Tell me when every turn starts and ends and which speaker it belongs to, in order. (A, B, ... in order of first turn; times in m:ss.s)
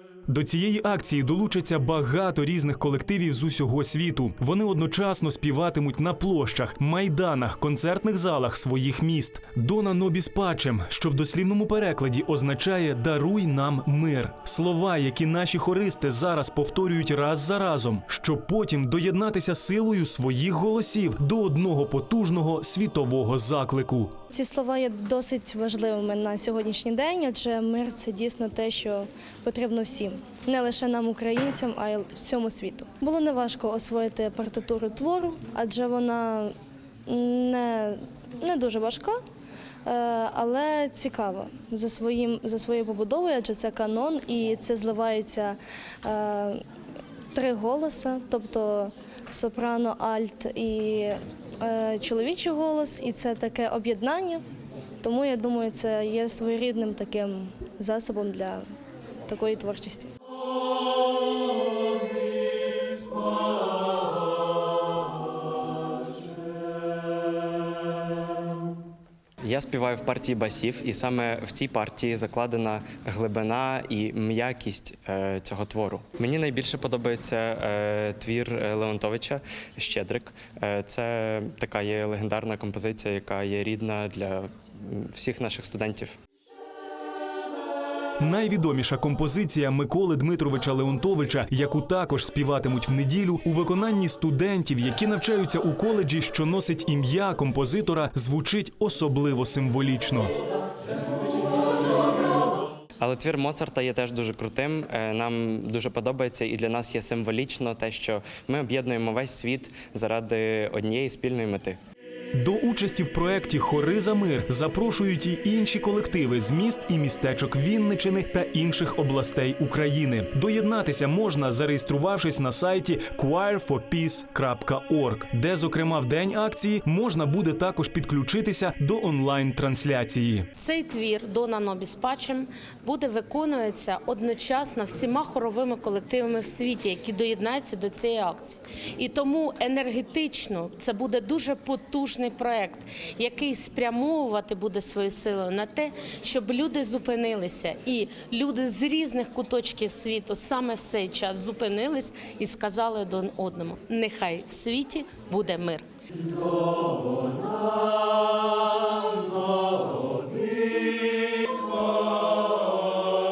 0:00.3-0:24.1 A
0:24.3-0:36.5 B
0:37.1-0:39.2 B
0:39.9-0:46.6 B
0:47.3-0:54.4 B
0:55.0-0:58.7 B
0:59.3-1:00.1 B
1:09.4-1:26.2 C
1:28.2-1:40.3 A
1:43.0-1:51.8 C
1:52.3-2:10.5 A
2:10.6-2:35.9 D